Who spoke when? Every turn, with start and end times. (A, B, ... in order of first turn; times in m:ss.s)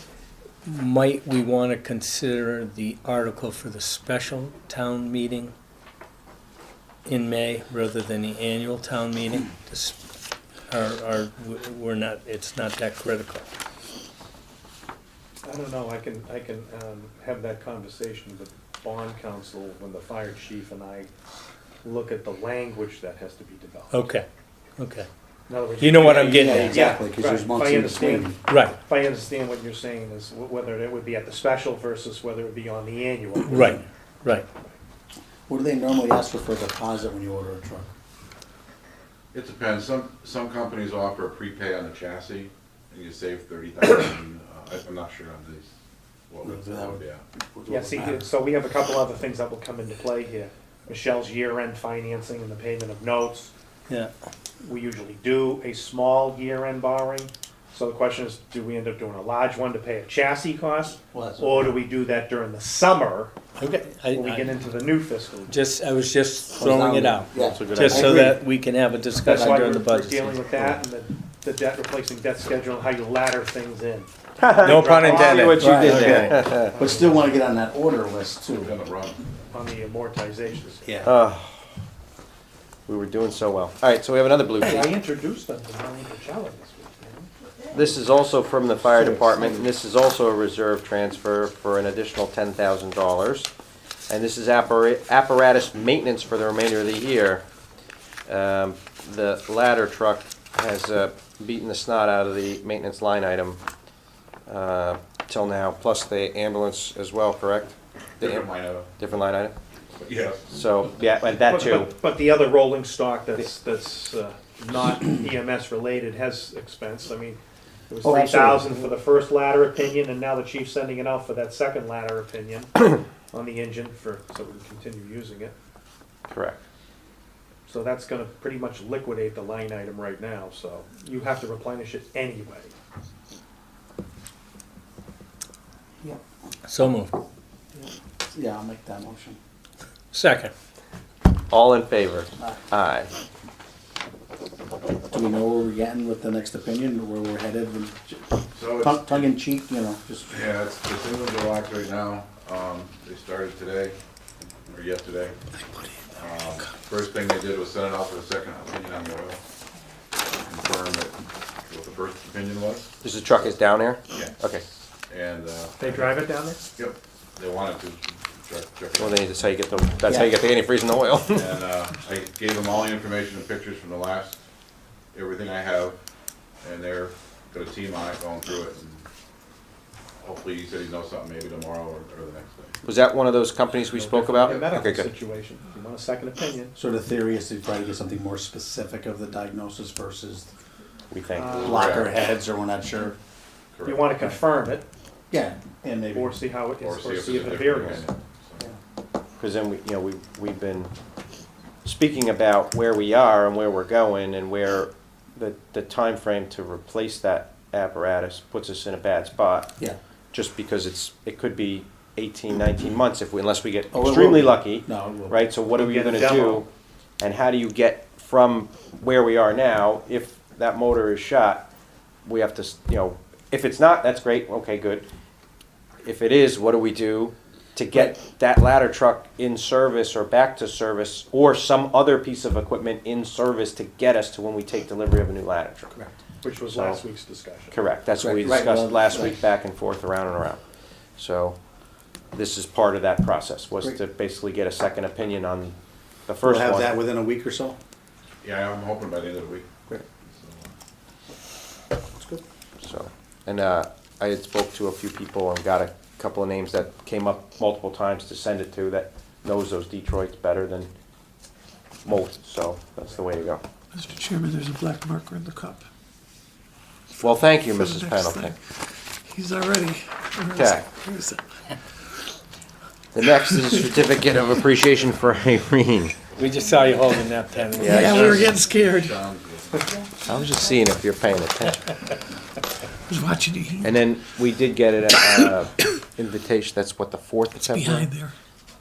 0:00.6-0:05.5 A
0:07.0-0:10.0 A
0:10.7-0:13.4 A
0:15.4-0:21.1 B
0:21.8-0:23.9 B
0:23.9-0:25.1 A
0:25.5-0:33.7 B
0:25.8-0:26.8 A
0:26.0-0:28.4 C
0:28.5-0:28.8 A
0:33.4-0:34.5 A
0:35.5-0:37.9 C
0:39.3-0:45.7 D
0:46.3-0:47.2 D
0:46.4-0:48.2 C
0:47.7-0:53.5 B
0:54.6-1:03.3 B
1:01.1-1:01.7 C
1:03.6-1:04.5 A
1:04.1-1:05.5 B
1:05.5-1:10.7 A
1:06.6-1:08.4 C
1:07.3-1:08.3 D
1:09.2-1:09.8 C
1:09.2-1:14.1 B
1:14.4-1:16.7 E
1:14.6-1:16.5 A
1:14.6-1:15.8 B
1:15.6-1:18.8 C
1:16.6-1:17.0 B
1:18.6-1:19.2 D
1:19.5-1:20.8 B
1:20.8-1:21.1 C
1:21.0-1:21.6 E
1:22.9-1:24.9 E
1:24.6-1:27.3 B
1:27.7-1:33.5 E
1:28.8-1:29.7 C
1:34.1-1:37.4 E
1:38.3-1:43.6 E
1:44.5-1:49.6 E
1:48.2-1:48.9 D
1:50.0-1:50.5 D
1:50.5-1:51.9 E
1:51.4-2:05.6 B
1:58.0-1:59.0 C
2:06.3-2:06.6 E
2:07.6-2:12.7 B
2:16.6-2:17.1 A
2:18.3-2:19.4 C
2:20.1-2:20.5 A
2:21.5-2:23.1 E
2:25.1-2:30.3 C
2:28.5-2:29.3 D
2:30.3-2:34.0 D
2:34.7-2:35.3 D
2:36.2-2:39.4 D
2:40.4-2:42.9 D
2:43.0-2:44.6 E
2:45.1-2:49.4 D
2:45.8-2:46.6 B
2:49.0-2:51.5 E
2:50.0-2:50.3 C
2:51.3-2:54.4 D
2:55.1-2:56.0 D
2:56.6-2:59.0 D
3:00.2-3:02.7 D
3:02.8-3:05.1 E
3:03.9-3:06.7 B
3:06.8-3:10.5 C
3:11.1-3:12.0 E
3:11.3-3:11.6 B
3:11.4-3:12.2 D
3:11.6-3:13.2 C
3:13.7-3:14.4 D
3:13.8-3:14.9 B
3:15.3-3:16.4 C
3:16.1-3:18.1 B
3:16.8-3:18.6 D
3:19.4-3:20.9 E
3:21.8-3:29.7 E
3:30.3-3:36.7 E
3:33.9-3:35.4 C
3:35.7-3:36.6 B
3:37.2-3:41.7 E
3:42.2-3:45.0 E
3:46.0-3:55.9 E
3:56.4-3:57.8 B
3:56.7-3:57.0 E
3:57.7-4:00.6 E
3:58.2-3:59.4 C
4:01.2-4:01.6 E
4:02.3-4:07.0 E
4:06.4-4:07.8 C
4:08.4-4:09.7 D
4:10.3-4:10.6 D
4:12.8-4:20.9 E
4:22.0-4:23.6 E
4:23.9-4:25.8 F
4:27.2-4:28.6 E
4:27.7-4:31.6 F
4:30.5-4:30.9 E
4:33.1-4:36.1 E
4:36.4-4:38.6 A
4:37.7-4:39.8 D
4:37.8-4:38.5 E
4:37.9-4:39.0 F
4:40.2-4:41.8 E
4:43.1-4:44.0 F
4:43.8-4:48.1 E
4:47.6-4:48.3 F